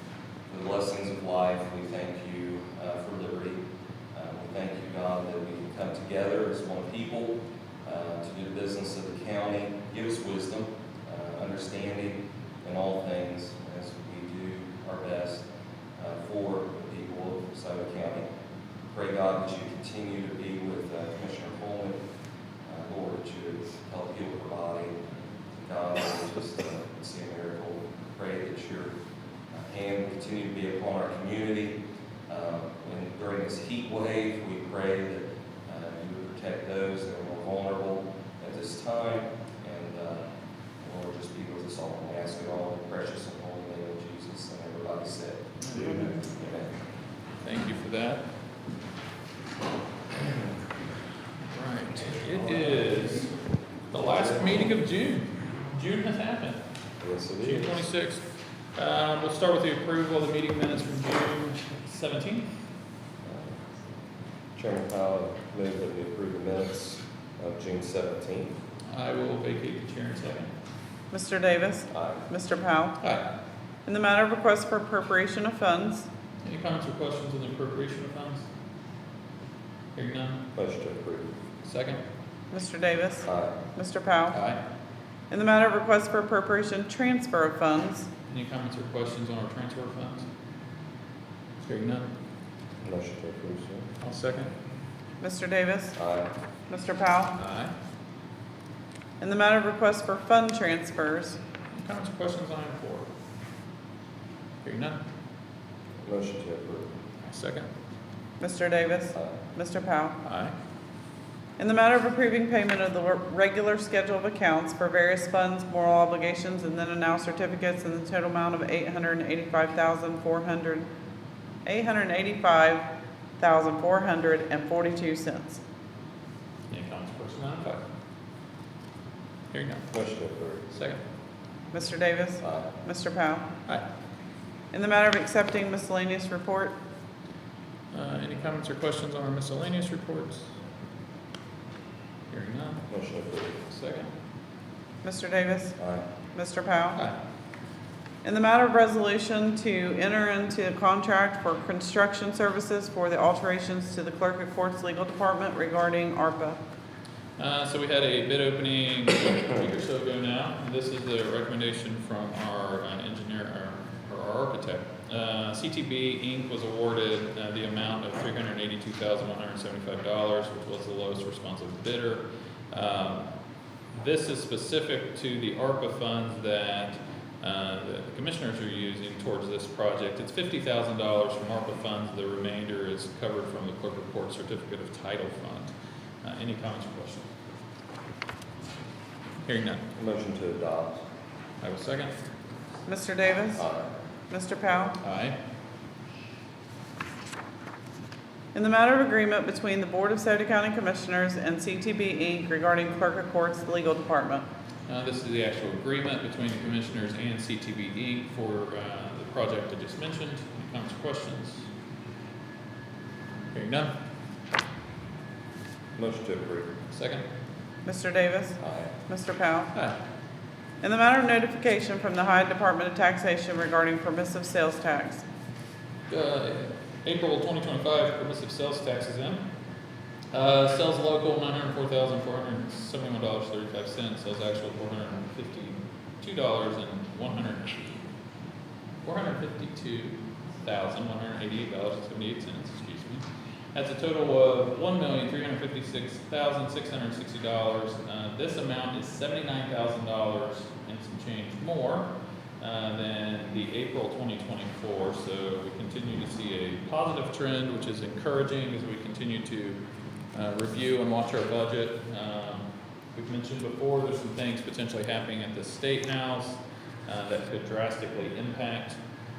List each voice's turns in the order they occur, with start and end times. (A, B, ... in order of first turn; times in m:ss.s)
0:00.5-0:03.6 A
0:04.1-0:15.4 A
0:16.0-0:18.2 A
0:18.9-0:22.0 A
0:22.6-0:25.0 A
0:25.5-0:28.9 A
0:29.5-0:31.8 A
0:32.3-0:40.2 A
0:40.8-0:45.4 A
0:45.6-0:46.1 B
0:45.8-0:46.2 C
0:46.2-0:46.7 A
0:47.4-0:48.2 B
0:51.5-0:53.3 B
0:53.9-0:56.6 B
0:57.0-0:57.8 A
0:57.4-0:58.2 B
0:58.7-1:02.5 B
1:03.2-1:03.6 A
1:04.6-1:08.5 A
1:08.9-1:10.5 B
1:11.1-1:13.0 C
1:11.9-1:12.2 A
1:13.0-1:13.3 B
1:13.8-1:16.1 C
1:16.4-1:18.4 B
1:19.9-1:20.4 B
1:20.5-1:21.3 A
1:21.6-1:22.0 B
1:22.5-1:24.4 C
1:23.2-1:23.5 A
1:24.3-1:24.6 B
1:25.3-1:28.1 C
1:28.3-1:30.2 B
1:31.6-1:32.1 B
1:32.8-1:33.9 A
1:34.0-1:34.5 B
1:35.2-1:35.9 C
1:35.9-1:36.3 A
1:36.7-1:37.3 C
1:37.4-1:37.7 B
1:39.2-1:41.4 C
1:41.7-1:43.1 B
1:44.6-1:45.0 B
1:46.0-1:46.9 A
1:47.2-1:47.7 B
1:48.4-1:50.2 C
1:50.2-1:50.5 B
1:51.6-2:00.9 C
2:01.6-2:02.9 C
2:03.4-2:05.6 C
2:06.7-2:07.8 B
2:09.5-2:09.8 B
2:09.9-2:10.7 A
2:10.7-2:11.0 B
2:11.7-2:13.5 C
2:12.4-2:12.7 A
2:14.7-2:16.7 C
2:17.9-2:20.4 B
2:22.3-2:22.8 B
2:22.9-2:23.6 A
2:23.7-2:24.1 B
2:25.0-2:25.7 C
2:25.8-2:26.1 A
2:26.3-2:27.0 C
2:28.2-2:36.6 C
2:37.4-2:53.3 B
2:53.9-3:05.7 B
3:06.2-3:07.3 B
3:09.4-3:09.8 B
3:10.0-3:11.0 A
3:11.6-3:12.1 B
3:12.9-3:13.6 C
3:13.5-3:13.9 A
3:14.3-3:15.0 C
3:15.0-3:15.4 B
3:18.5-3:24.4 C
3:24.9-3:31.7 B
3:33.5-3:33.9 B
3:36.0-3:36.7 A
3:36.9-3:37.2 B
3:37.8-3:38.6 C
3:38.6-3:38.9 A
3:39.1-3:39.7 C
3:40.8-3:45.2 C
3:46.1-3:49.4 B
3:50.3-3:58.0 B
3:59.0-4:19.8 B
4:20.3-4:29.0 B